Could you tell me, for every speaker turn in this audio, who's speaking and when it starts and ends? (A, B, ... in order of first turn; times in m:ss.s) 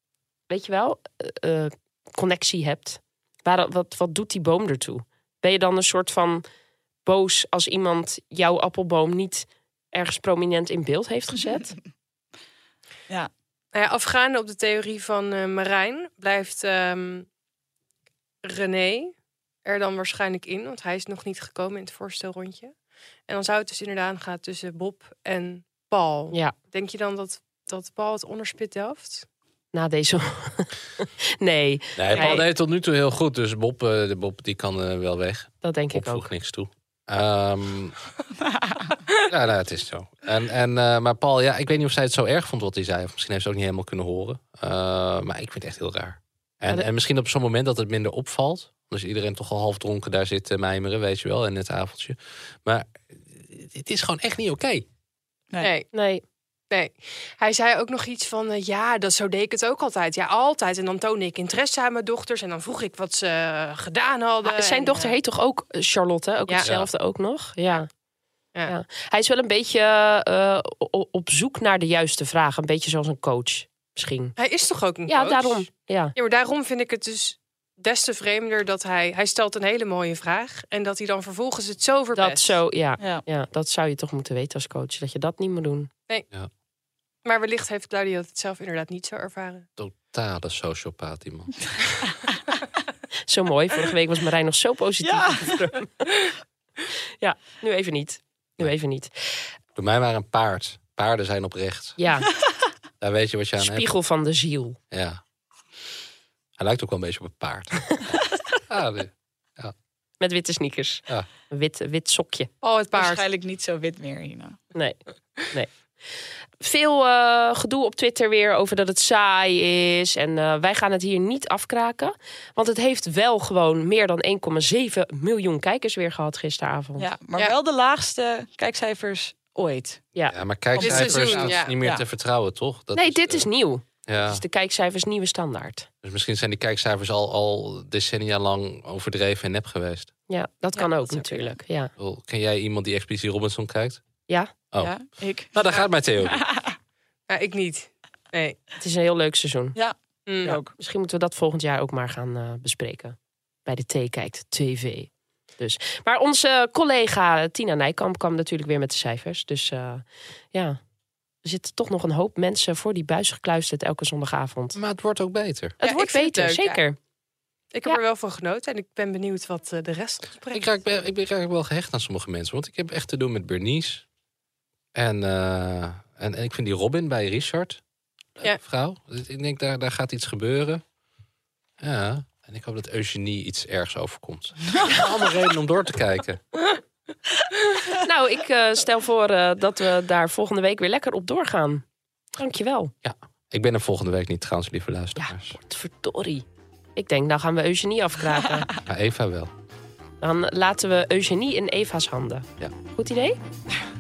0:00.5-0:06.5 A
0:07.0-0:11.8 A
0:13.7-0:17.3 B
0:18.4-0:22.7 B
0:23.3-0:29.3 B
0:29.7-0:32.4 A
0:32.0-0:38.0 C
0:35.6-0:36.3 A
0:38.6-0:38.9 D
0:39.2-0:54.9 C
0:55.6-0:55.9 B
0:55.9-0:56.2 A
0:56.7-1:05.2 B
1:04.4-1:07.9 A
1:06.6-1:06.9 C
1:08.7-1:14.4 A
1:14.4-1:22.6 B
1:15.1-1:16.1 A
1:22.2-1:25.9 A
1:23.0-1:23.2 D
1:27.2-1:29.7 B
1:29.8-1:32.1 C
1:33.3-1:36.1 A
1:35.0-1:35.7 D
1:37.2-1:39.5 A
1:39.8-1:42.0 C
1:42.0-1:42.3 A
1:43.0-1:43.9 C
1:43.6-1:44.8 A
1:44.9-1:45.2 C
1:46.6-1:49.7 C
1:50.2-1:52.5 A
1:52.6-1:53.2 B
1:53.0-1:54.6 D
1:54.7-1:55.7 A
1:56.6-2:07.1 A
2:07.0-2:10.0 D
2:10.3-2:13.5 C
2:10.7-2:12.0 D
2:10.8-2:11.8 B
2:12.9-2:15.9 A
2:14.1-2:14.4 C
2:16.0-2:20.1 C
2:20.3-2:21.9 A
2:20.7-2:21.6 D
2:22.0-2:24.0 C
2:24.7-2:26.4 C
2:24.8-2:25.7 D
2:26.2-2:26.8 D
2:27.3-2:28.6 B
2:28.8-2:29.8 A
2:29.8-2:30.7 D
2:30.3-2:30.6 B
2:30.4-2:40.8 A
2:41.4-2:44.8 A
2:44.8-2:45.8 C
2:45.8-2:47.0 A
2:45.8-2:46.8 B
2:47.7-2:50.7 B
2:50.5-2:54.0 C
2:54.9-2:57.8 C
2:58.4-3:00.8 C
3:01.8-3:06.4 C
3:08.0-3:11.8 A
3:12.4-3:12.9 A
3:13.0-3:15.6 C
3:15.2-3:16.4 A
3:17.0-3:18.7 A
3:18.8-3:19.5 C
3:20.2-3:23.4 A